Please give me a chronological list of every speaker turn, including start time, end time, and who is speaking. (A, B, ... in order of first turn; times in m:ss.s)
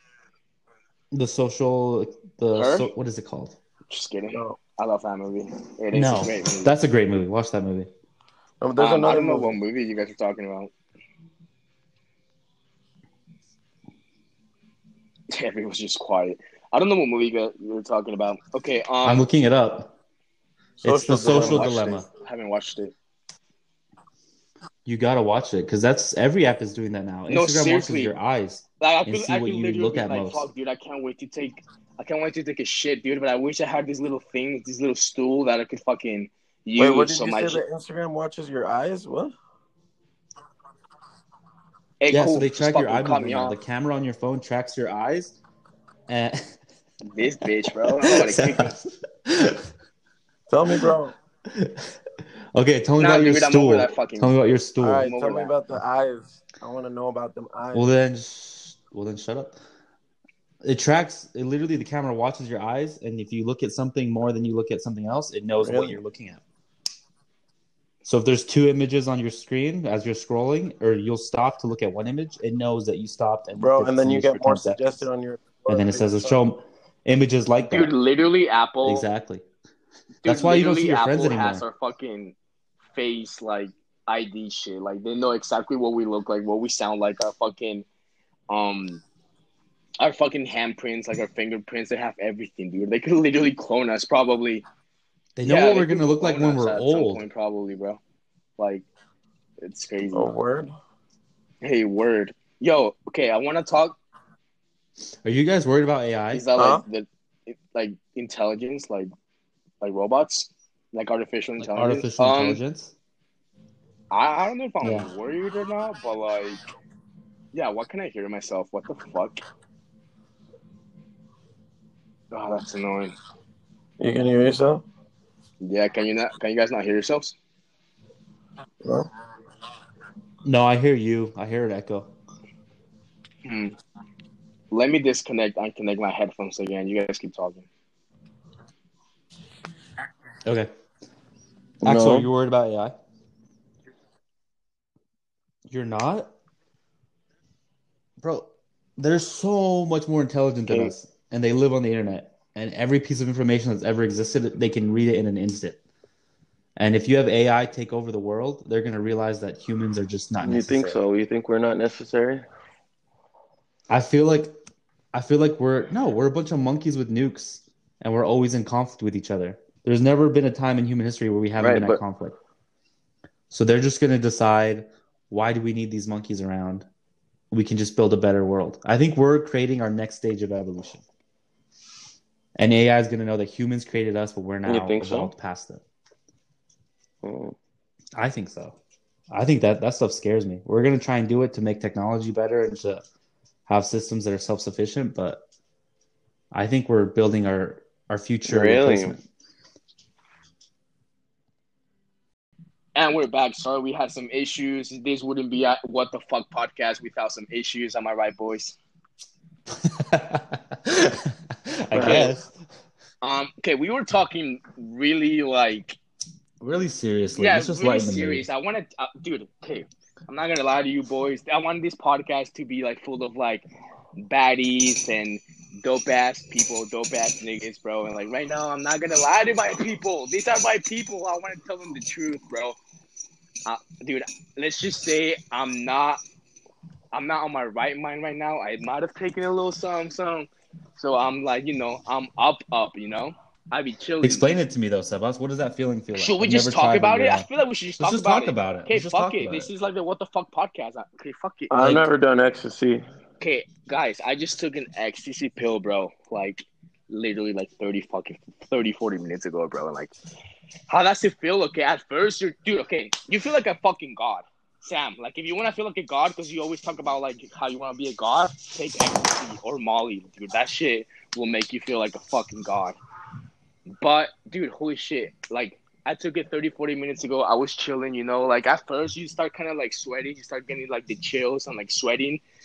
0:01.1-0:03.6 A
0:02.5-0:02.9 B
0:03.9-0:06.7 B
0:04.3-0:04.6 C
0:05.9-0:07.9 A
0:08.6-0:09.6 C
0:08.8-0:10.7 B
0:15.3-0:19.3 B
0:19.0-0:19.9 A
0:20.8-0:22.1 A
0:20.8-0:22.0 C
0:21.1-0:22.9 B
0:24.8-0:30.5 A
0:27.3-0:28.1 B
0:28.8-0:37.6 B
0:36.8-0:39.4 C
0:42.0-0:43.6 B
0:42.1-0:45.4 A
0:46.1-0:46.6 A
0:47.0-0:48.8 B
0:48.0-0:49.7 A
0:50.5-0:51.2 C
0:51.5-0:51.9 A
0:52.6-0:55.1 A
0:53.0-0:54.4 B
0:54.8-0:57.9 C
0:55.0-0:55.5 B
0:57.7-0:59.6 A
1:00.6-1:06.4 A
1:05.6-1:06.0 C
1:08.0-1:15.0 A
1:13.6-1:16.4 C
1:15.7-1:17.9 A
1:17.7-1:19.1 B
1:18.8-1:19.4 A
1:20.2-1:22.4 B
1:20.2-1:21.6 A
1:22.9-1:27.8 B
1:28.5-1:29.0 B
1:30.0-1:34.6 B
1:35.4-1:37.2 A
1:35.4-1:38.0 B
1:38.6-1:38.9 B
1:39.6-1:40.3 B
1:40.1-1:40.7 C
1:41.6-1:44.0 B
1:45.2-1:46.5 A
1:46.3-1:49.1 B
1:46.6-1:46.8 C
1:49.8-1:52.6 B
1:51.6-1:52.9 A
1:54.1-1:56.6 B
1:54.8-1:55.1 A
1:57.5-1:59.4 B
2:02.3-2:03.2 B
2:04.0-2:04.8 C
2:05.6-2:07.4 B
2:10.4-2:12.1 A
2:13.4-2:13.8 B
2:14.7-2:17.7 B
2:20.5-2:20.7 A
2:21.8-2:22.3 C
2:21.8-2:23.0 A
2:25.7-2:26.3 A
2:28.2-2:35.8 A
2:30.7-2:30.9 C
2:36.8-2:41.0 A
2:40.4-2:42.5 C
2:43.9-2:44.5 A
2:45.1-2:52.4 A
2:51.6-2:52.0 B
2:53.5-2:56.9 A
2:57.5-3:01.0 A
3:02.6-3:05.8 A
3:04.7-3:05.3 C
3:07.2-3:07.6 C
3:08.2-3:08.8 A
3:09.3-3:13.0 A
3:13.7-3:15.4 A
3:16.5-3:19.2 A
3:18.4-3:19.2 C
3:23.0-3:28.8 B
3:29.8-3:32.5 A
3:31.9-3:32.4 C
3:32.0-3:32.3 B
3:33.2-3:36.0 B
3:36.6-3:38.5 A
3:37.4-3:43.7 B
3:44.2-3:52.8 B
3:53.6-3:56.2 B
3:57.1-4:04.6 B
4:04.2-4:07.5 A
4:06.2-4:11.9 B
4:08.0-4:09.7 A
4:11.7-4:13.0 C
4:13.4-4:20.1 B
4:20.9-4:33.0 B
4:34.0-4:42.4 B